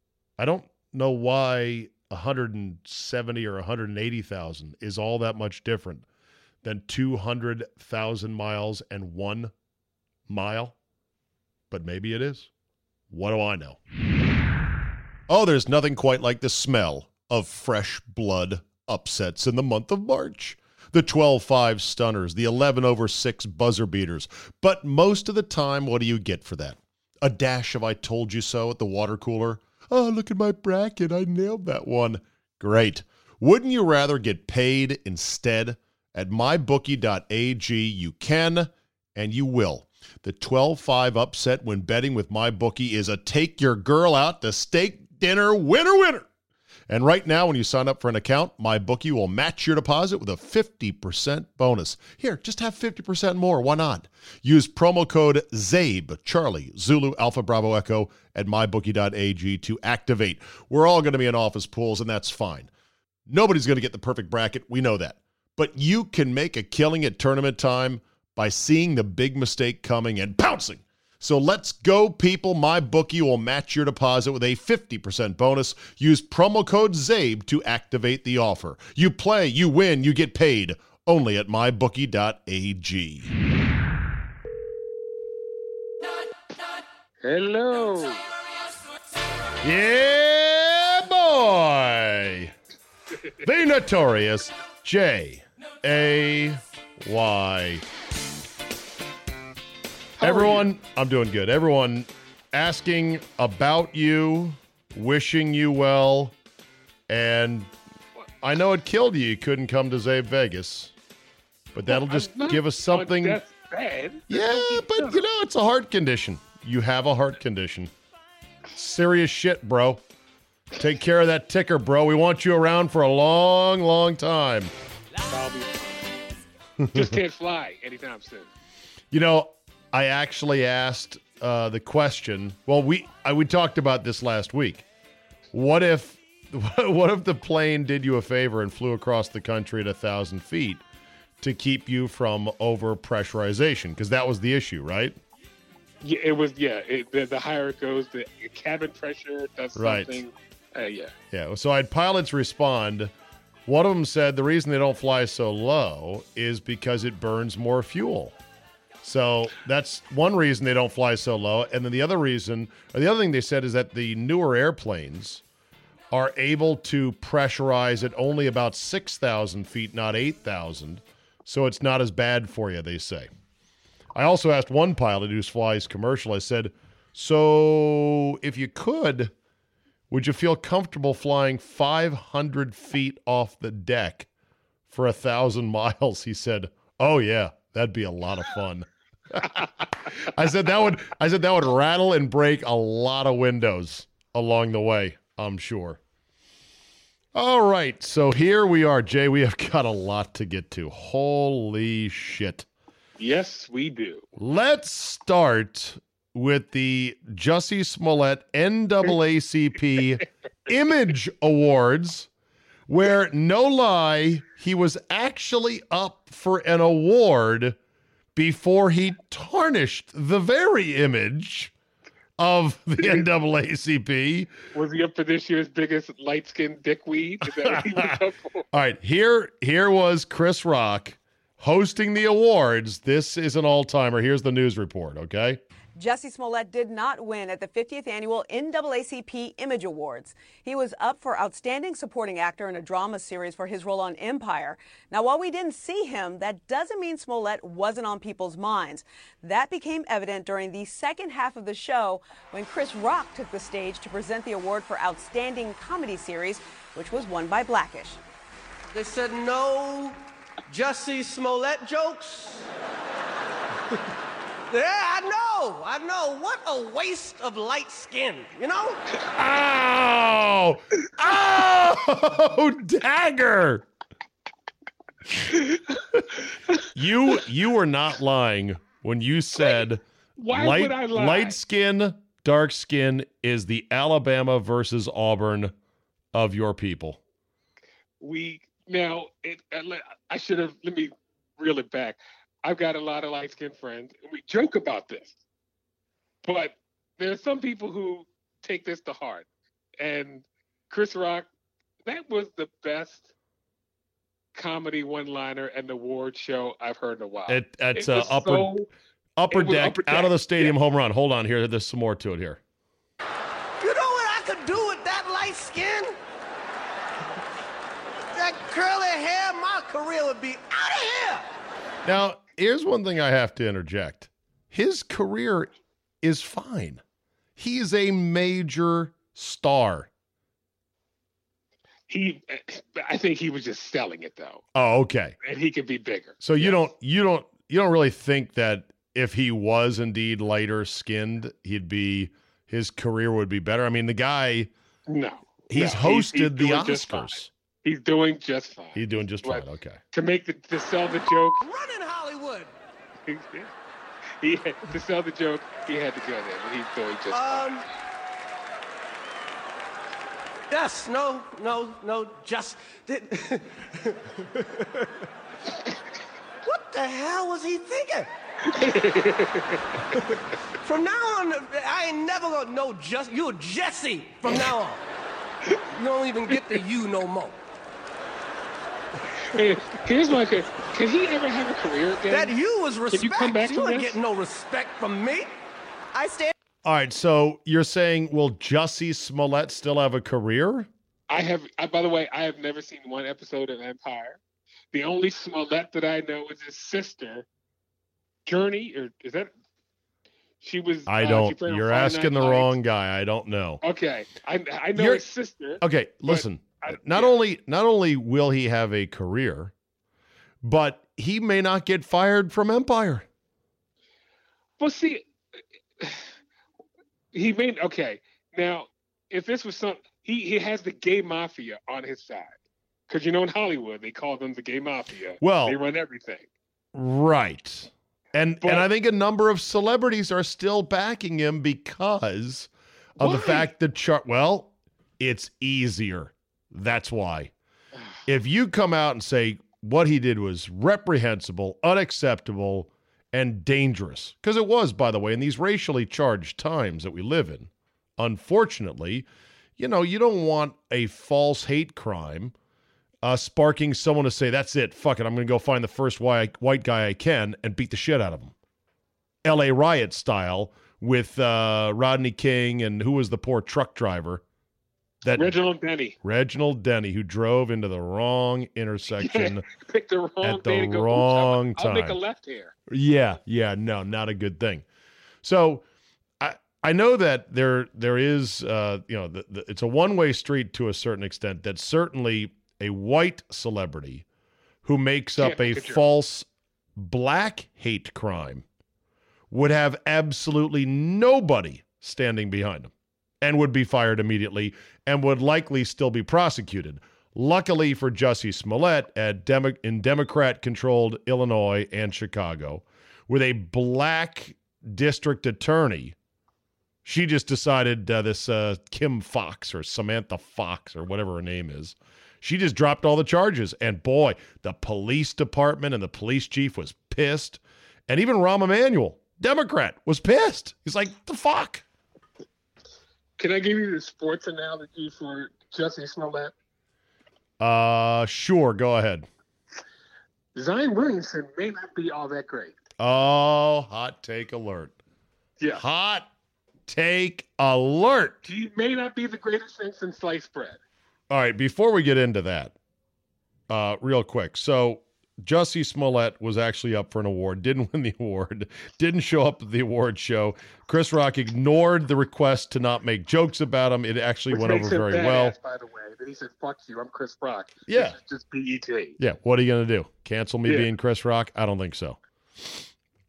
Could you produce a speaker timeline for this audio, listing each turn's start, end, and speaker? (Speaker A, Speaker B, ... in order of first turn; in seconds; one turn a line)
Speaker A: 0.4-6.0
Speaker A: 6.6-9.5
Speaker A: 10.3-10.7
Speaker A: 11.7-12.5
Speaker A: 13.1-13.8
Speaker A: 15.3-46.3
Speaker A: 46.9-62.7
Speaker A: 63.3-83.3
Speaker B: 87.2-88.3
Speaker A: 89.6-92.5
Speaker A: 93.4-97.8
Speaker B: 100.2-100.7
Speaker A: 100.2-106.3
Speaker A: 107.1-107.7
Speaker A: 108.4-110.9
Speaker A: 111.7-113.4
Speaker B: 111.9-115.2
Speaker A: 114.3-117.9
Speaker A: 118.7-120.0
Speaker A: 120.8-124.7
Speaker B: 125.3-126.2
Speaker A: 126.8-127.2
Speaker B: 126.9-128.5
Speaker A: 129.1-134.8
Speaker A: 135.5-140.8
Speaker A: 141.4-145.2
Speaker B: 146.0-151.1
Speaker A: 149.7-150.2
Speaker A: 151.3-153.1
Speaker A: 153.7-158.4
Speaker A: 159.0-165.4
Speaker A: 166.1-173.3
Speaker A: 174.1-179.3
Speaker A: 180.1-184.3
Speaker A: 184.9-196.0
Speaker A: 197.3-202.7
Speaker B: 203.2-204.2
Speaker A: 204.3-212.3
Speaker A: 212.9-217.8
Speaker A: 218.3-221.7
Speaker A: 222.4-224.5
Speaker B: 224.7-228.6
Speaker A: 227.6-228.1
Speaker A: 228.7-235.6
Speaker C: 236.0-258.2
Speaker D: 258.9-262.7
Speaker D: 264.7-269.1
Speaker A: 269.3-273.8
Speaker A: 276.9-280.0
Speaker B: 280.4-281.6
Speaker A: 280.5-285.7
Speaker A: 286.3-287.2
Speaker B: 288.2-295.4
Speaker B: 296.4-299.5
Speaker B: 300.0-301.5
Speaker B: 302.0-303.3
Speaker B: 304.5-308.9
Speaker A: 307.5-308.7
Speaker A: 309.4-312.6
Speaker B: 309.5-310.8
Speaker D: 313.8-316.2
Speaker D: 318.3-321.5
Speaker A: 322.0-325.7
Speaker A: 326.2-327.0
Speaker A: 327.6-330.1
Speaker B: 332.1-334.6
Speaker A: 334.7-335.4
Speaker B: 335.4-336.8
Speaker A: 336.4-344.7
Speaker B: 345.1-351.6
Speaker A: 345.7-347.5
Speaker A: 348.9-350.0
Speaker D: 351.6-352.7
Speaker B: 353.2-353.7
Speaker B: 354.4-357.8
Speaker D: 357.3-357.9
Speaker D: 360.7-365.2
Speaker D: 366.6-368.3
Speaker B: 368.6-370.0
Speaker D: 370.8-375.0
Speaker D: 375.9-377.6
Speaker B: 376.5-376.8
Speaker B: 379.5-382.6
Speaker D: 382.3-385.5
Speaker B: 383.1-384.1
Speaker D: 386.1-386.5
Speaker A: 386.8-390.9
Speaker B: 391.3-394.4
Speaker B: 394.9-397.4
Speaker B: 398.4-399.5
Speaker B: 400.6-402.7
Speaker A: 401.1-403.8
Speaker B: 403.8-407.3
Speaker A: 404.9-405.2
Speaker A: 405.8-409.7
Speaker A: 410.6-413.3
Speaker B: 414.8-415.3
Speaker B: 416.0-416.3
Speaker B: 417.3-422.6
Speaker B: 423.1-426.5
Speaker A: 425.4-425.8
Speaker A: 426.9-437.5
Speaker B: 428.6-428.9
Speaker B: 433.2-433.7
Speaker A: 438.2-452.5
Speaker A: 453.2-458.5
Speaker A: 459.4-464.4
Speaker A: 465.2-465.6
Speaker B: 465.3-466.1
Speaker A: 466.2-469.6
Speaker B: 469.2-472.7
Speaker A: 470.4-472.2
Speaker A: 472.9-474.9
Speaker A: 475.4-475.8
Speaker A: 476.4-484.2
Speaker A: 484.8-488.6
Speaker B: 485.4-486.0
Speaker A: 489.5-506.1
Speaker A: 507.0-521.8
Speaker B: 523.4-526.5
Speaker A: 527.6-529.3
Speaker B: 530.5-532.8
Speaker A: 533.0-535.0
Speaker A: 535.7-536.3
Speaker A: 536.9-538.4
Speaker B: 538.4-540.8
Speaker A: 541.3-542.7
Speaker A: 543.7-555.5
Speaker B: 554.5-559.2
Speaker A: 557.9-558.2
Speaker A: 559.2-562.9